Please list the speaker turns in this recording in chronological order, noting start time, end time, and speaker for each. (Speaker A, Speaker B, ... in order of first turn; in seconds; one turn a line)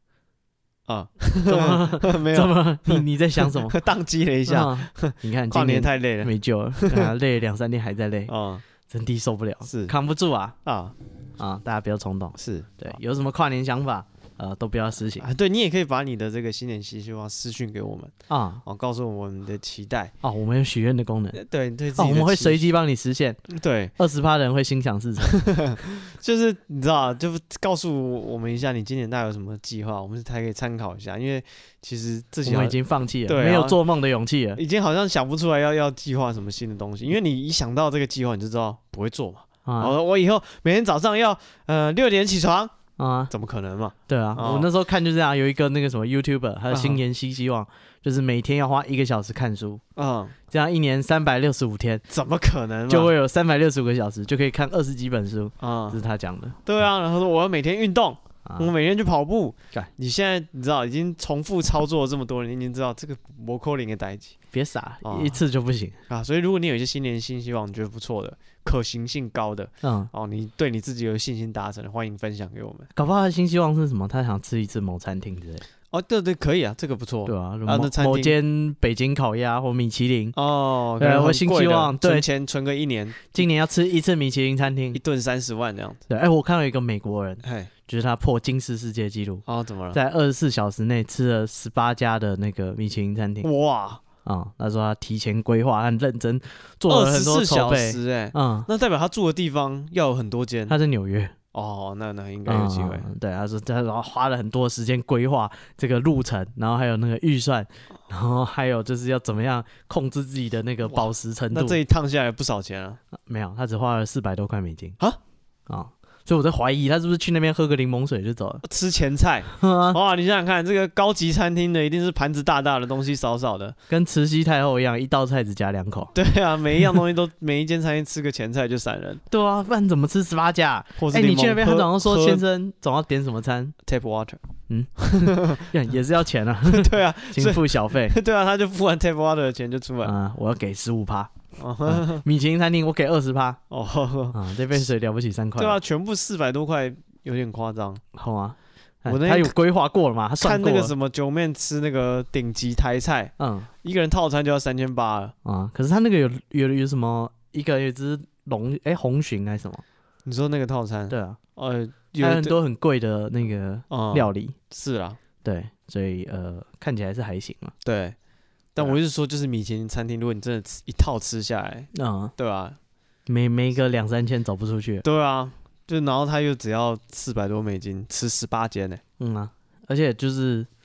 Speaker A: 0.9-7.1
Speaker B: 1.5-3.8
Speaker B: 4.5-8.3
Speaker A: 8.3-8.6
Speaker B: 8.9-10.6
Speaker A: 9.7-9.9
Speaker A: 10.7-10.9
Speaker B: 11.4-15.2
Speaker A: 12.4-12.9
Speaker A: 15.2-18.1
Speaker B: 18.3-18.6
Speaker A: 18.6-20.1
Speaker B: 20.2-21.4
Speaker A: 21.3-22.7
Speaker B: 22.0-23.4
Speaker A: 23.5-23.9
Speaker B: 24.0-25.4
Speaker A: 25.4-33.8
Speaker B: 32.5-34.6
Speaker A: 34.5-42.7
Speaker B: 39.6-39.9
Speaker B: 43.0-43.3
Speaker A: 43.3-44.7
Speaker B: 44.1-49.8
Speaker A: 46.7-47.0
Speaker A: 50.0-50.3
Speaker B: 50.5-52.0
Speaker A: 52.1-53.1
Speaker B: 52.9-56.6
Speaker A: 55.6-56.0
Speaker A: 56.6-64.3
Speaker B: 58.5-58.7
Speaker B: 64.5-66.0
Speaker A: 65.0-65.4
Speaker A: 66.1-72.9
Speaker B: 69.8-70.1
Speaker B: 73.0-75.6
Speaker A: 75.9-78.3
Speaker B: 77.3-80.3
Speaker A: 80.3-83.4
Speaker B: 81.0-82.3
Speaker B: 83.3-85.0
Speaker A: 84.9-86.0
Speaker B: 86.1-93.5
Speaker A: 87.4-87.7
Speaker A: 89.5-90.0
Speaker A: 93.4-94.0
Speaker B: 94.2-98.7
Speaker A: 96.9-100.8
Speaker B: 100.7-101.3
Speaker A: 101.5-103.1
Speaker B: 102.5-111.8
Speaker A: 110.9-113.0
Speaker B: 113.3-115.0
Speaker B: 115.7-118.6
Speaker A: 118.6-123.8
Speaker B: 119.6-120.0
Speaker B: 123.9-126.1
Speaker A: 126.1-129.2
Speaker B: 129.3-133.7
Speaker A: 131.0-132.4
Speaker A: 133.8-134.4
Speaker B: 134.7-138.2
Speaker A: 135.0-135.7
Speaker A: 136.7-140.1
Speaker B: 140.0-141.3
Speaker A: 141.6-142.2
Speaker B: 141.8-143.6
Speaker A: 143.7-144.4
Speaker B: 144.3-145.8
Speaker A: 145.6-148.0
Speaker B: 148.1-150.9
Speaker A: 149.1-149.5
Speaker A: 150.4-155.3
Speaker B: 153.4-153.7
Speaker B: 155.4-159.8
Speaker A: 160.2-162.6
Speaker B: 161.1-161.4
Speaker B: 162.2-164.6
Speaker A: 163.9-165.2
Speaker B: 165.4-167.7
Speaker A: 167.8-168.2
Speaker A: 168.8-172.8
Speaker B: 171.9-172.3
Speaker B: 173.3-175.0
Speaker A: 175.0-179.0
Speaker B: 179.2-180.7